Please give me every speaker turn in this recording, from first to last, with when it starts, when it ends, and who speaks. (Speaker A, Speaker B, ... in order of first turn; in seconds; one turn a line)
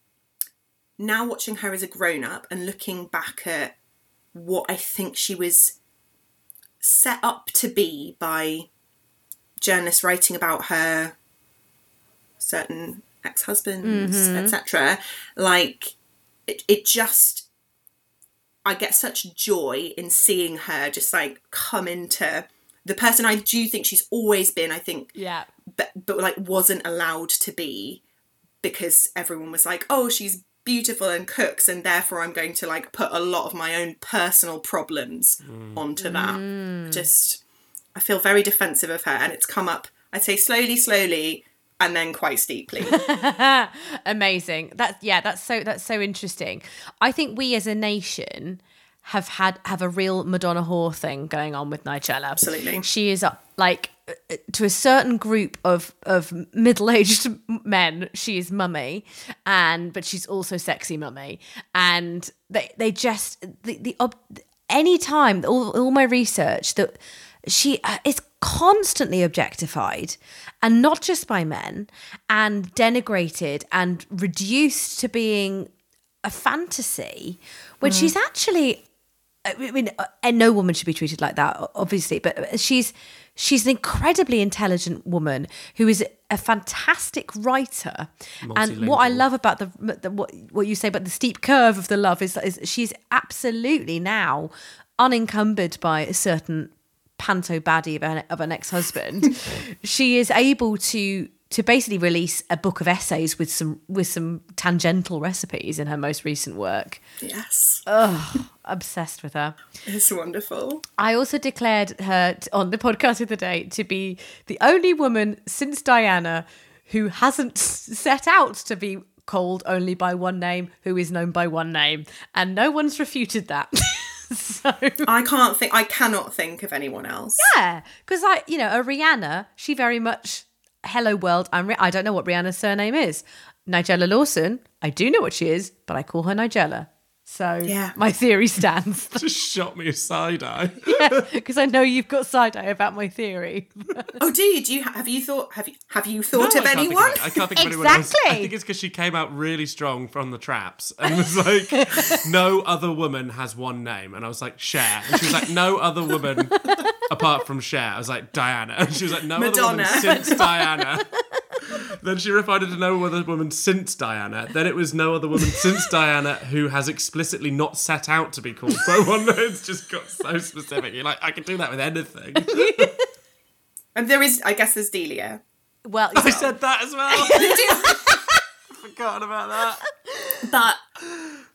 Speaker A: 1.0-3.7
Speaker A: 4.3-5.8
Speaker A: 6.8-8.7
Speaker A: 9.6-11.2
Speaker A: 12.4-15.9
Speaker B: 13.8-14.5
Speaker A: 16.5-17.5
Speaker A: 18.6-25.1
Speaker B: 25.1-25.5
Speaker A: 25.7-28.0
Speaker A: 28.6-37.4
Speaker C: 35.5-35.8
Speaker B: 36.0-37.0
Speaker A: 37.9-43.0
Speaker B: 42.9-75.7
Speaker A: 52.4-52.9
Speaker B: 76.2-78.8
Speaker A: 77.8-78.1
Speaker B: 79.4-107.0
Speaker C: 88.4-89.2
Speaker A: 107.2-107.8
Speaker B: 107.9-109.5
Speaker A: 109.8-110.8
Speaker B: 111.0-125.1
Speaker A: 125.0-127.5
Speaker B: 127.4-139.2
Speaker A: 137.7-138.0
Speaker C: 139.2-141.2
Speaker B: 140.8-144.2
Speaker A: 144.2-147.4
Speaker C: 146.3-161.1
Speaker B: 147.5-148.5
Speaker B: 151.7-152.2
Speaker B: 156.6-156.8
Speaker A: 159.3-160.4
Speaker B: 160.1-160.8
Speaker C: 161.7-172.9
Speaker B: 172.6-172.9
Speaker A: 173.9-175.4
Speaker B: 175.8-176.5
Speaker C: 176.1-177.7
Speaker B: 177.1-178.4
Speaker A: 177.3-178.2
Speaker C: 178.7-179.8
Speaker B: 180.0-180.5
Speaker A: 180.4-180.8